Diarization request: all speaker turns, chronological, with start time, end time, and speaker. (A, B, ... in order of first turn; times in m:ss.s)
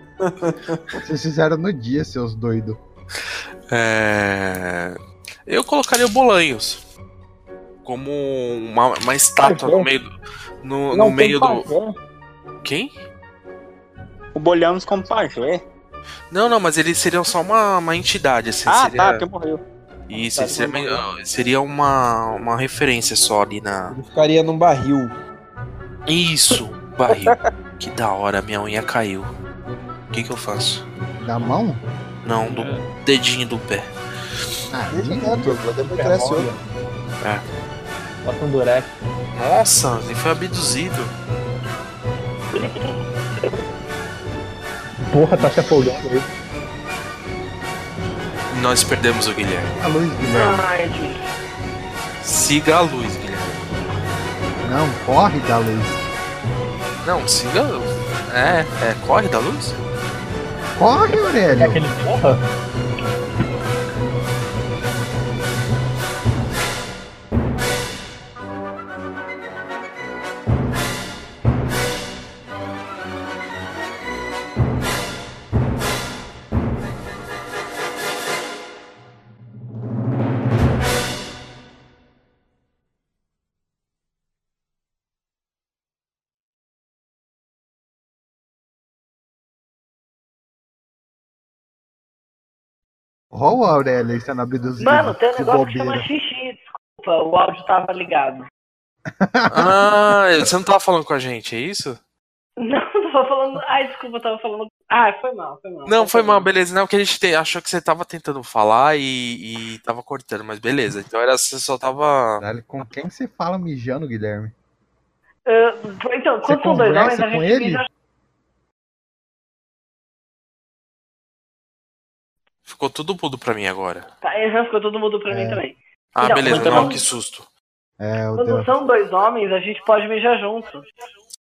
0:00.2-0:00.8 A
0:01.0-0:02.8 B
0:03.7-0:06.8 C
0:07.8-0:10.1 C
0:09.4-0:09.9 D
0:10.6-0:11.7 C
0:10.9-0:11.9 D
0:12.6-0:12.9 C
0:14.3-0:15.6 D
0:16.3-0:19.2 C
0:18.7-0:21.0 D
0:20.1-0:24.0 C
0:23.9-0:25.1 A
0:26.1-0:29.3 C
0:27.1-0:27.4 D
0:30.1-0:30.8 C
0:31.2-0:31.8 B
0:32.2-0:33.9 C
0:34.7-0:35.6 B
0:34.9-0:36.5 A
0:35.8-0:36.6 E
0:38.2-0:38.9 E
0:39.3-0:41.1 C
0:45.1-0:46.3 E
0:48.5-0:49.7 C
0:49.8-0:50.6 B
0:50.3-0:51.2 F
0:52.2-0:53.7 C
0:54.6-0:56.0 B
0:57.0-0:59.8 C
1:00.8-1:01.8 B
1:01.6-1:02.4 E
1:33.3-1:36.1 B
1:34.8-1:38.4 F
1:39.1-1:39.7 B
1:39.5-1:42.0 C
1:42.6-1:46.5 F
1:45.8-1:52.4 C
1:52.4-1:54.5 B
1:55.5-1:57.9 F
1:56.4-1:57.8 B
2:02.6-2:04.1 C
2:04.2-2:07.0 F
2:05.3-2:05.6 B
2:06.2-2:07.5 C
2:06.5-2:06.9 B
2:08.0-2:08.7 B
2:08.4-2:10.8 F